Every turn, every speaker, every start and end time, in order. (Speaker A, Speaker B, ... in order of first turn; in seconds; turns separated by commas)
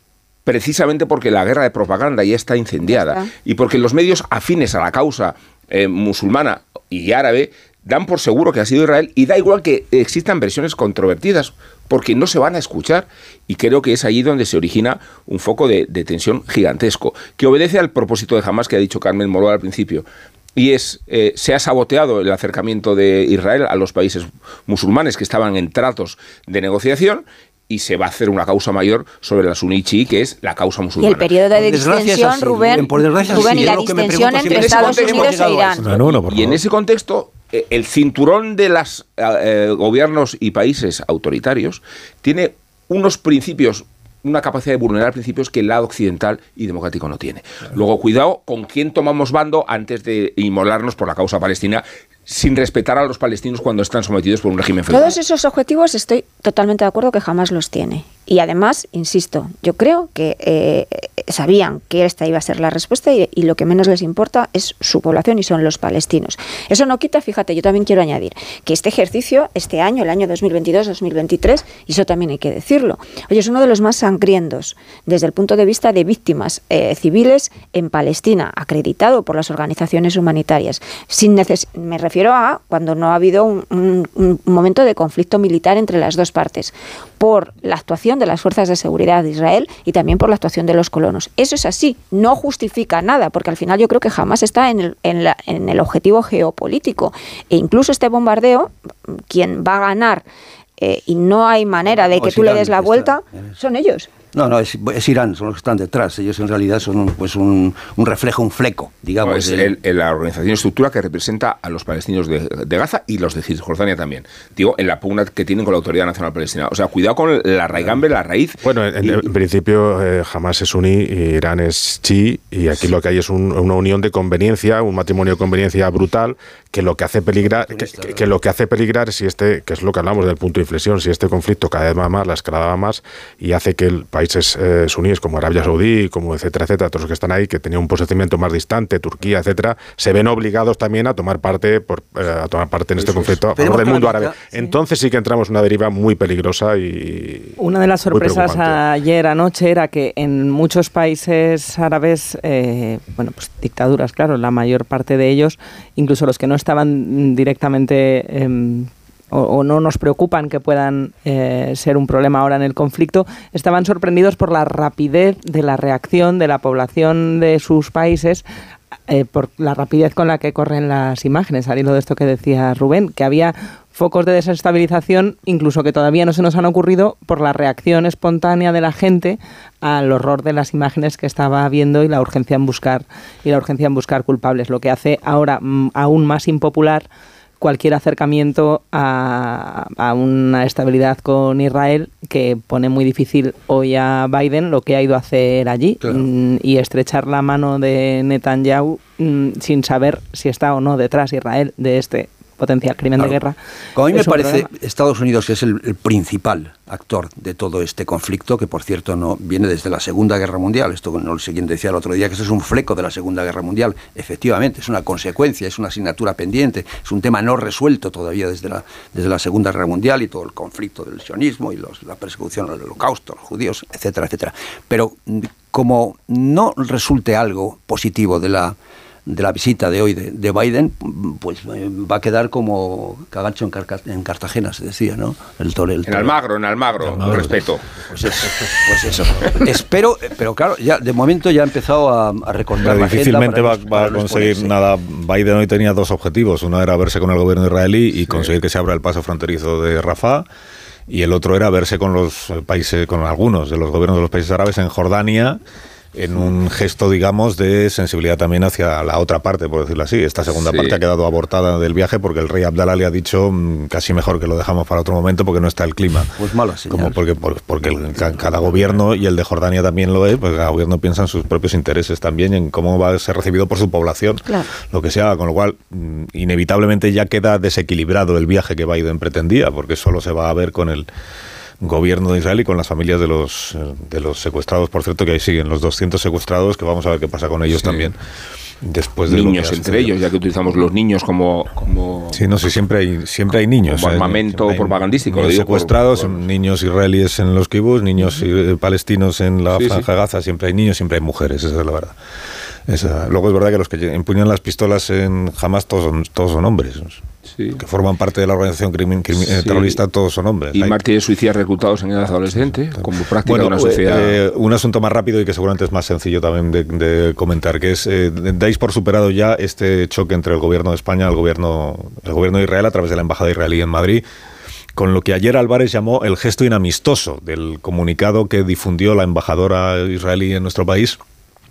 Speaker A: 0.5-31.4, Speaker B: 2.9-3.3, Speaker B: 31.0-35.8, Speaker C: 31.6-35.9, Speaker A: 34.4-55.2, Speaker D: 35.8-36.6, Speaker B: 54.9-100.3, Speaker B: 100.8-104.1, Speaker C: 101.8-103.5, Speaker C: 104.2-109.8, Speaker A: 109.2-119.2, Speaker E: 118.6-148.8, Speaker C: 127.5-128.3, Speaker A: 143.0-143.4, Speaker C: 143.5-144.6, Speaker F: 147.6-168.4, Speaker F: 169.1-187.1, Speaker F: 187.6-203.6, Speaker C: 204.0-228.8, Speaker F: 204.1-204.7, Speaker C: 229.3-236.3, Speaker A: 236.1-237.9, Speaker D: 237.0-237.6, Speaker C: 238.1-244.8, Speaker D: 242.8-250.5, Speaker D: 251.1-255.6, Speaker D: 256.1-266.3, Speaker A: 260.5-261.0, Speaker C: 266.4-267.2, Speaker D: 266.9-281.1, Speaker D: 281.8-288.1, Speaker A: 287.8-288.1, Speaker D: 288.8-290.1, Speaker A: 289.3-292.8, Speaker D: 292.3-302.2, Speaker A: 293.9-296.5, Speaker A: 299.7-300.1, Speaker D: 302.9-307.2, Speaker D: 307.8-311.0, Speaker A: 309.3-310.0, Speaker A: 310.7-314.4, Speaker D: 313.4-324.2, Speaker D: 325.0-331.2